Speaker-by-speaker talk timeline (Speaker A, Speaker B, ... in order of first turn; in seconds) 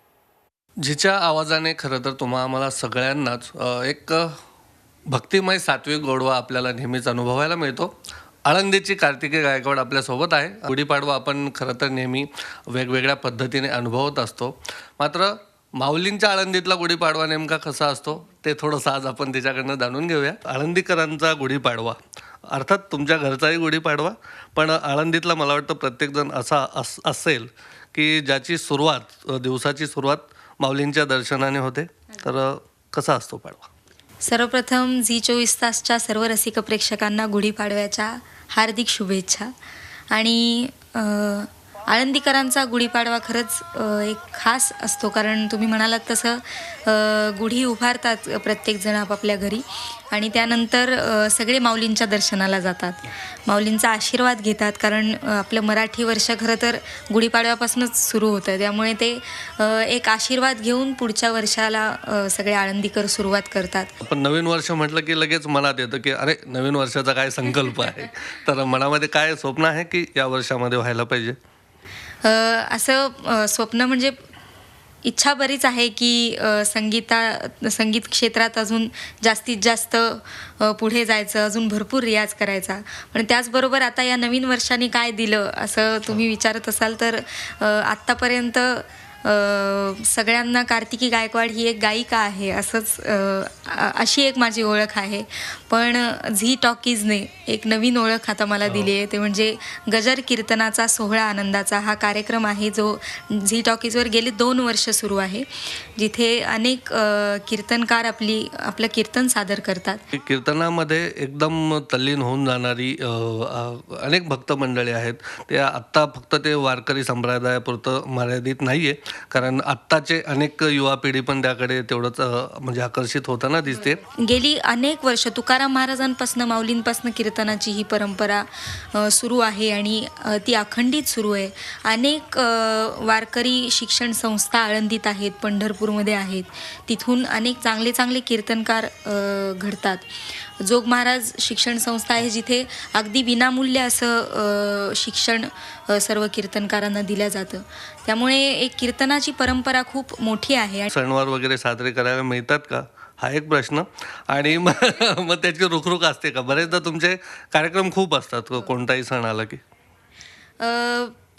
Speaker A: 0.8-4.4, 5.1-7.9, 8.5-22.0, 22.5-33.7, 64.0-71.4, 98.7-98.9, 110.1-124.0, 150.9-159.6
Speaker B: 34.2-39.5, 40.1-63.9, 72.2-74.2, 75.0-110.0, 123.7-150.9, 160.6-161.1